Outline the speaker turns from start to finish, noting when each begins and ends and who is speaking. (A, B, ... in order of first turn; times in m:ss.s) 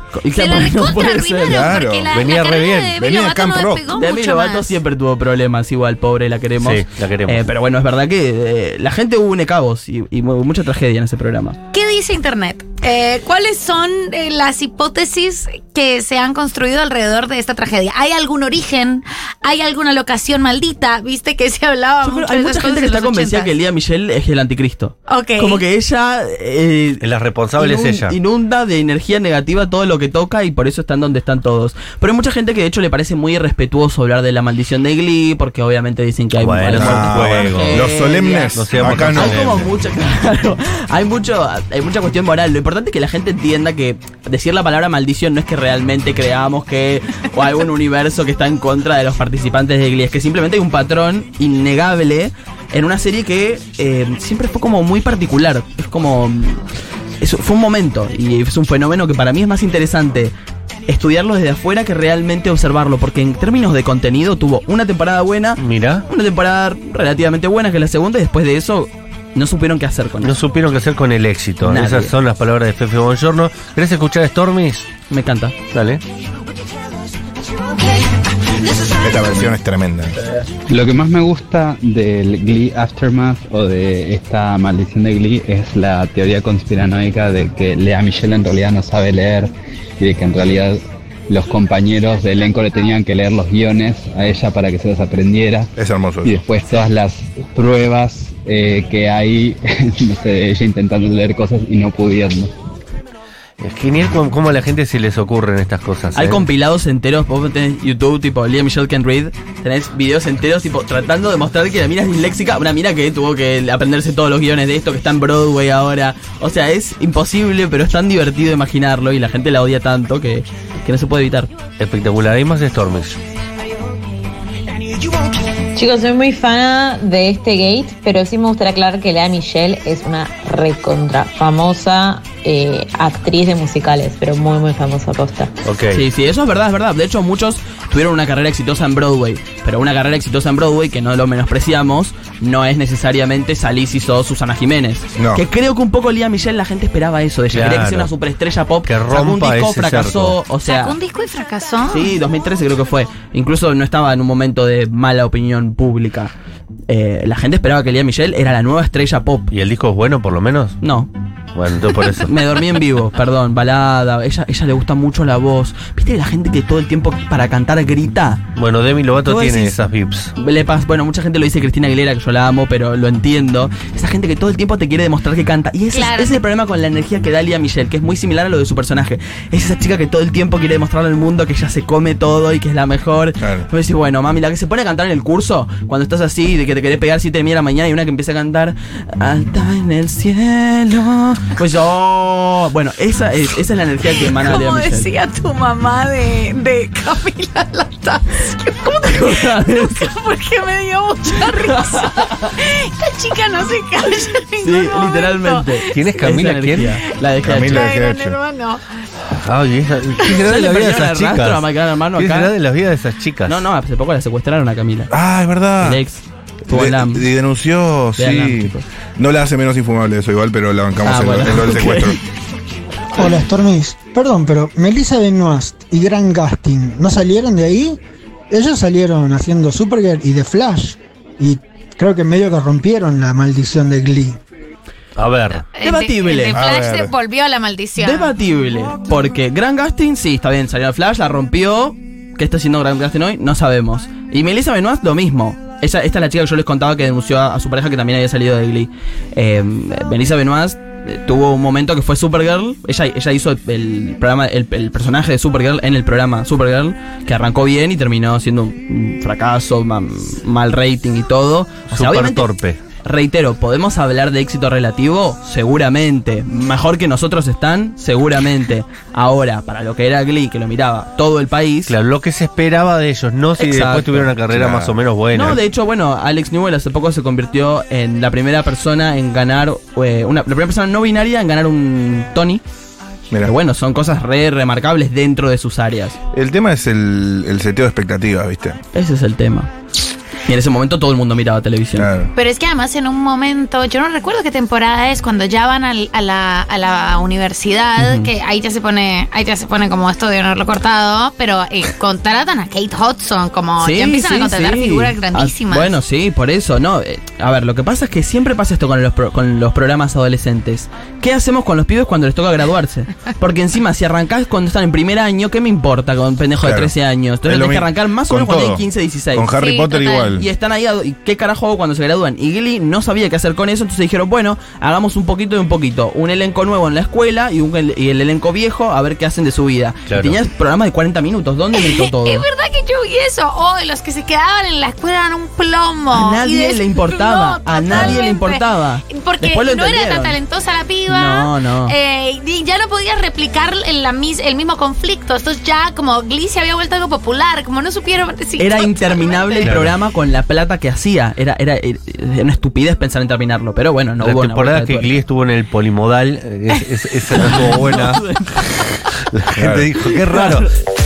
0:00.1-0:01.7 A
0:00.3-0:04.7 B
0:01.4-0:02.3 C
0:02.1-0:03.0 D
0:03.0-0:03.8 C
0:03.9-0:11.6 A
0:06.6-0:07.4 D
0:11.7-0:23.5 B
0:22.0-0:27.0 A
0:25.1-0:25.6 B
0:27.0-0:28.2 D
0:27.6-0:56.6 A
0:36.4-0:37.9 D
0:36.7-0:39.7 C
0:38.6-0:39.4 D
0:57.2-1:00.3 A
1:00.9-1:10.3 A
1:05.6-1:06.0 D
1:10.2-1:14.8 D
1:11.6-1:12.1 A
1:15.1-1:15.6 A
1:15.7-1:16.0 D
1:18.9-1:20.2 C
1:20.7-1:35.7 E
1:35.8-1:36.3 C
1:36.2-1:42.5 E
1:43.6-1:46.4 D
1:46.1-2:01.5 A
2:01.8-2:03.2 D
2:05.8-2:15.5 F
2:15.6-2:16.0 D
2:15.9-2:31.0 A
2:25.2-2:25.4 C
2:27.5-2:28.1 D
2:28.8-2:30.4 D
2:30.6-2:32.1 B
2:31.9-2:36.3 A
2:36.9-2:39.5 A
2:39.5-2:40.8 D
2:40.8-2:41.1 A
2:41.5-2:42.3 D
2:42.1-2:48.4 A
2:48.6-2:50.3 D
2:49.2-2:49.7 A
2:50.4-3:15.1 A
2:55.9-2:56.4 B
3:03.4-3:03.7 C
3:14.1-3:26.3 B
3:19.0-3:20.1 A
3:21.4-3:22.5 A
3:24.6-3:27.9 A
3:25.9-3:26.9 D
3:27.4-3:28.4 C
3:27.6-3:28.8 B
3:29.3-3:33.6 D
3:30.4-3:32.5 A
3:33.4-3:35.1 A
3:35.1-3:36.0 C
3:35.8-3:37.2 A
3:36.7-3:42.2 C
3:38.2-3:38.9 A
3:41.0-3:42.2 A
3:43.2-3:48.0 G
3:48.5-3:54.4 G
3:55.2-3:55.6 D
3:55.7-3:58.3 B
3:55.8-3:56.6 A
3:56.5-3:57.1 C
3:58.0-4:22.5 A
4:21.9-4:22.8 D
4:23.0-4:31.9 A
4:31.9-4:35.6 D
4:33.6-4:34.7 A
4:34.5-4:34.9 C
4:35.3-4:42.6 A
4:43.4-4:46.2 A
4:46.3-4:48.8 C
4:48.9-4:49.7 A
4:50.4-4:52.1 A
4:51.9-4:52.3 C
4:52.3-5:05.9 B
4:58.0-4:58.3 A
5:03.8-5:19.5 A
5:16.6-5:20.4 C
5:19.5-5:20.4 B
5:20.3-5:32.4 A
5:30.1-5:30.4 D
5:31.7-5:49.7 B
5:36.1-5:40.4 A
5:41.1-5:41.9 A
5:48.6-5:55.1 A
5:49.6-5:49.9 D
5:54.2-5:58.2 D
5:57.3-5:58.7 A
5:59.3-6:00.7 D
5:59.5-5:59.9 C
6:00.3-6:00.7 A